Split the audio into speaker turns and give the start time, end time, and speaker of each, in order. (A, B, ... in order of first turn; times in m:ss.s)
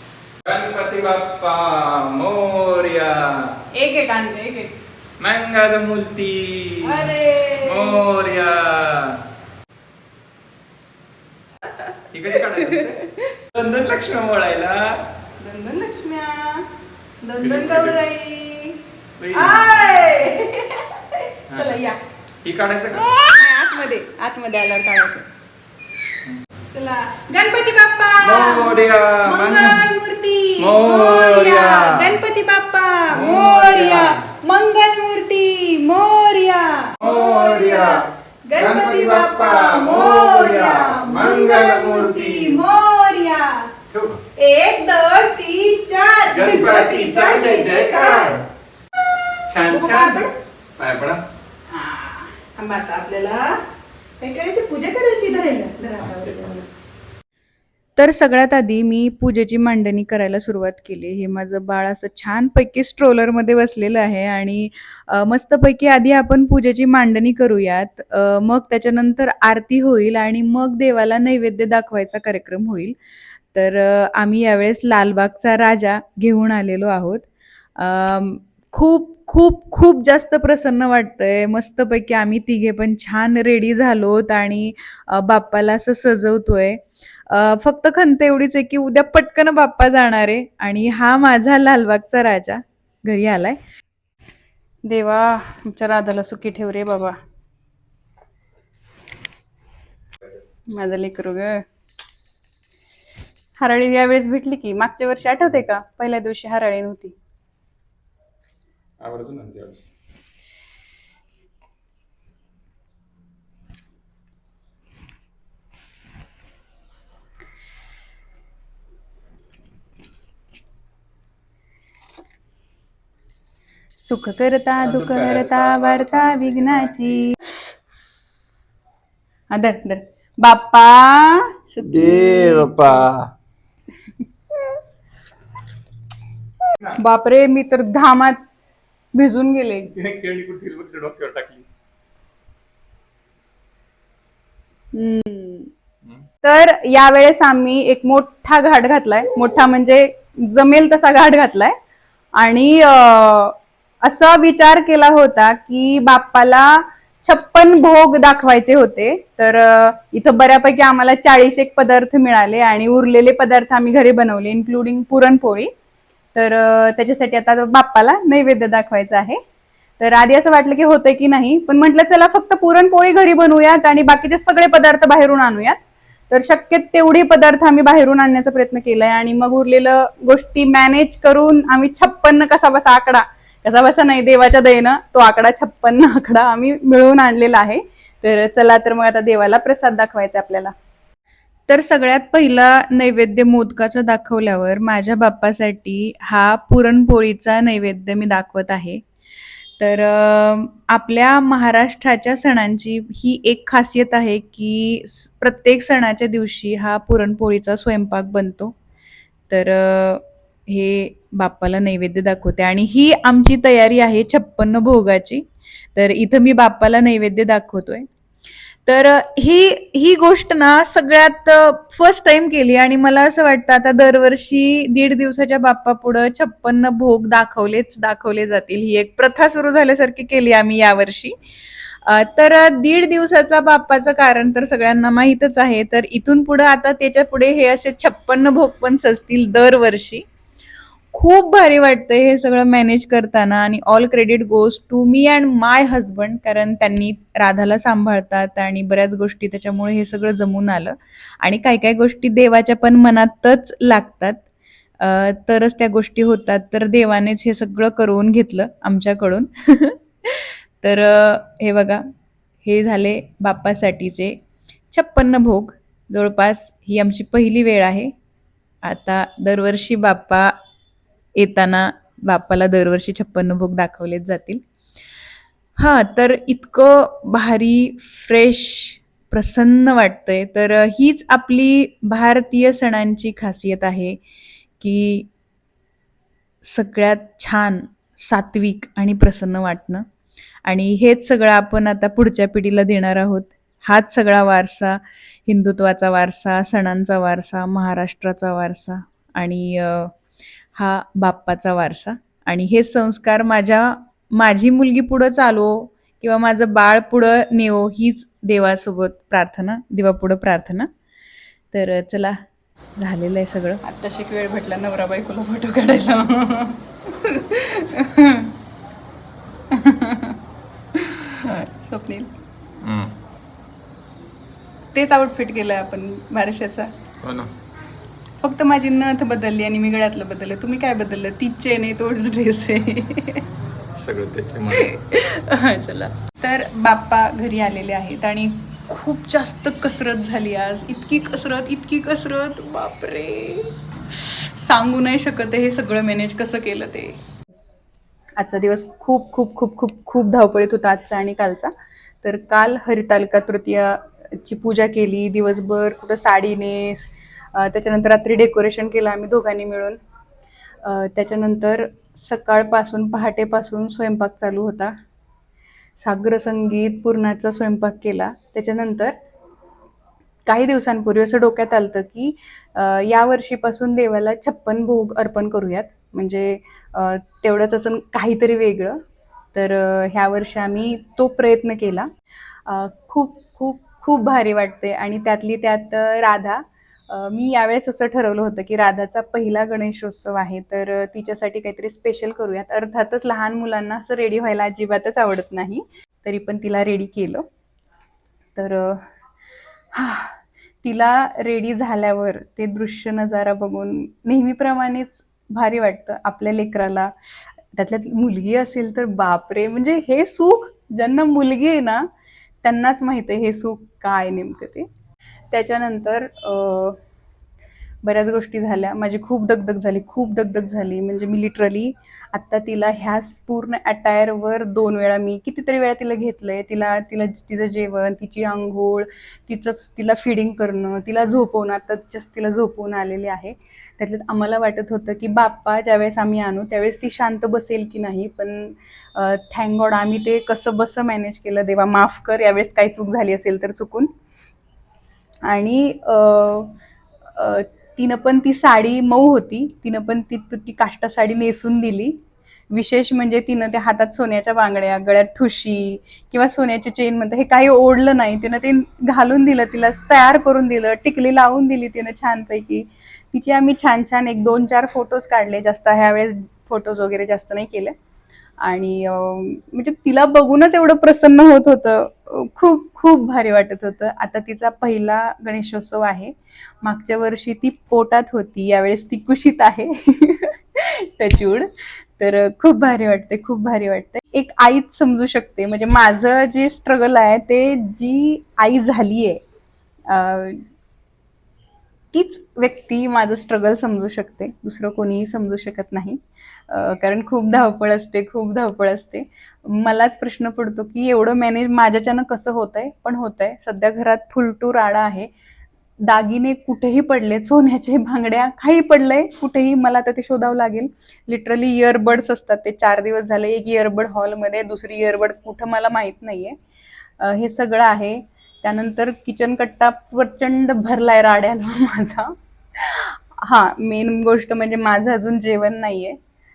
0:00.4-0:03.5 A
0:03.7-0:04.8 B
0:05.2-0:09.2 A
0:06.8-0:08.0 B
0:11.7-0:13.4 B
0:12.1-0:13.0 A
0:13.5-0:15.0 A
0:15.4-0:16.7 B
0:17.2-0:18.8 B
0:17.4-0:18.0 A
0:19.2-0:20.2 A
0:19.3-0:22.0 B
0:21.5-0:21.8 A
0:22.4-0:23.1 A
0:22.9-0:25.3 B
0:26.7-0:43.7 B
0:28.2-0:29.9 A
0:30.6-0:32.2 A
0:33.1-0:34.2 A
0:37.0-0:42.6 A
0:43.9-0:44.2 A
0:44.4-0:48.4 B
0:46.3-0:48.4 A
0:49.5-0:51.2 A
0:49.7-0:50.3 B
0:51.7-0:53.6 B
0:54.2-0:56.7 B
0:58.0-1:13.0 B
1:13.5-1:33.6 B
1:34.9-1:37.2 B
1:40.7-1:41.6 B
1:43.6-1:47.2 B
1:49.0-1:49.9 A
2:04.0-2:07.5 B
2:04.8-2:07.2 A
2:09.5-2:13.0 B
2:11.8-2:13.3 A
2:16.8-2:18.4 B
2:19.1-2:19.9 B
2:19.9-2:21.7 A
2:24.9-2:25.7 B
2:26.4-2:31.8 B
2:32.4-2:45.7 B
2:46.3-2:49.4 B
2:50.0-3:10.7 B
3:11.7-3:19.0 B
3:19.8-3:28.8 B
3:29.5-3:38.1 B
3:38.9-3:51.4 B
3:52.0-4:00.2 B
4:01.1-4:14.5 B
4:15.0-4:22.0 B
4:22.6-4:24.4 B
4:24.9-4:28.1 B
4:28.8-4:30.5 B
4:31.4-4:34.6 B
4:35.8-4:44.2 B
4:44.8-4:45.3 B
4:46.6-4:50.0 B
4:50.7-5:00.2 B
5:00.7-5:10.9 B
5:11.7-5:12.4 B
5:13.0-5:18.5 B
5:19.7-5:20.4 B
5:20.9-5:22.3 B
5:22.8-5:23.1 A
5:24.9-5:26.9 B
5:27.2-5:27.5 A
5:28.4-5:33.4 B
5:34.0-5:34.9 A
5:34.7-5:47.2 B
5:48.4-5:51.7 B
5:52.2-6:00.0 B
6:00.8-6:04.9 B
6:06.0-6:09.1 B
6:10.5-6:19.0 B
6:19.5-6:22.1 B
6:22.6-6:37.5 B
6:38.6-6:39.0 B
6:39.9-6:52.1 B
6:52.6-6:54.9 B
6:55.5-6:57.0 B
6:58.0-7:24.1 B
7:25.5-7:26.8 B
7:27.4-7:32.2 B
7:32.7-7:47.9 B
7:48.6-8:09.4 B
8:10.1-8:10.6 B
8:12.1-8:25.3 B
8:26.0-8:36.6 B
8:37.2-8:46.2 B